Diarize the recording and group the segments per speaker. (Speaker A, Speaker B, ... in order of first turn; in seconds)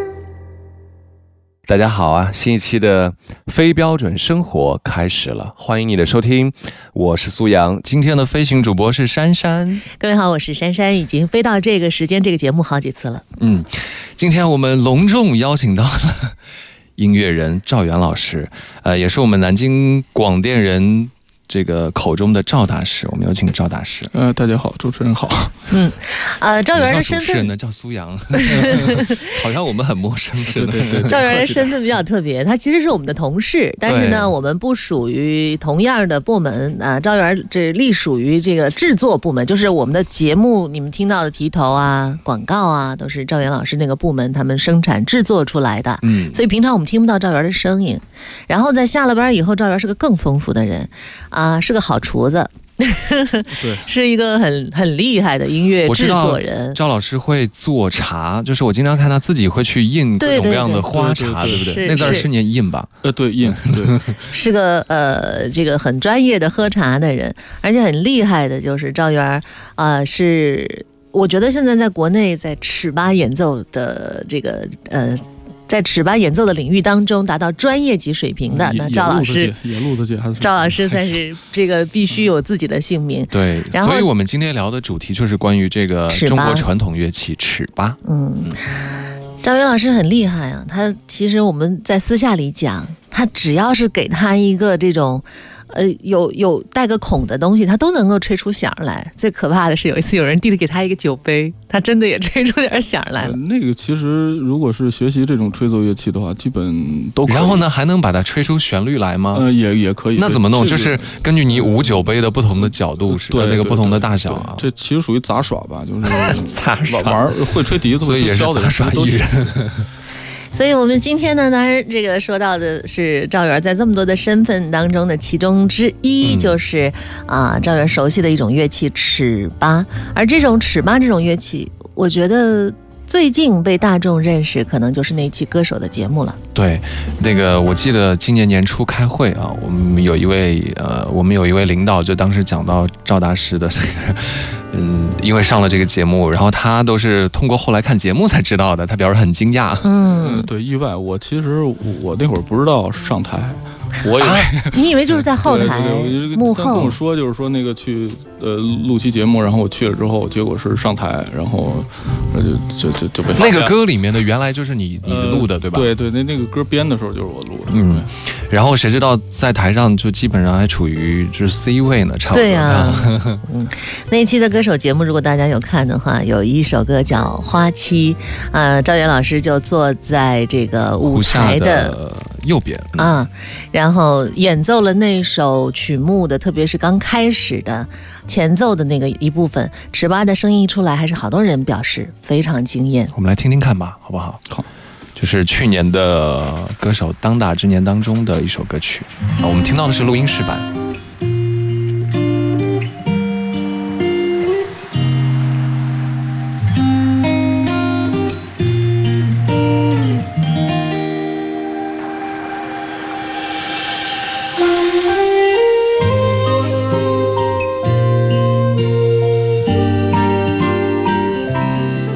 Speaker A: 1.6-9.9, 13.4-16.4, 16.9-24.1, 26.7-31.5, 33.9-34.3, 46.0-46.4, 55.8-62.9, 63.4-64.1, 83.3-88.0, 107.2-109.5, 110.2-114.7, 116.0-117.4, 118.0-119.9, 126.2-126.6, 136.5-149.9, 154.2-154.5, 163.3-165.9, 167.7-173.4, 181.1-183.1, 193.1-194.4, 195.2-200.7
Speaker B: 10.0-13.2, 25.7-27.5, 28.3-29.3, 31.1-56.8, 60.2-60.9, 61.5-62.3, 64.3-79.5, 80.4-84.1, 86.1-86.7, 88.0-88.6, 89.4-103.4, 120.5-136.4, 149.8-150.5, 154.7-157.0, 172.3-181.9, 183.0-193.1
Speaker C: 24.1-25.6, 30.5-31.7, 53.5-53.9, 60.9-62.3, 63.0-64.0, 78.5-81.2, 103.2-107.6, 109.3-112.2, 113.1-119.5, 150.1-163.8, 165.0-168.1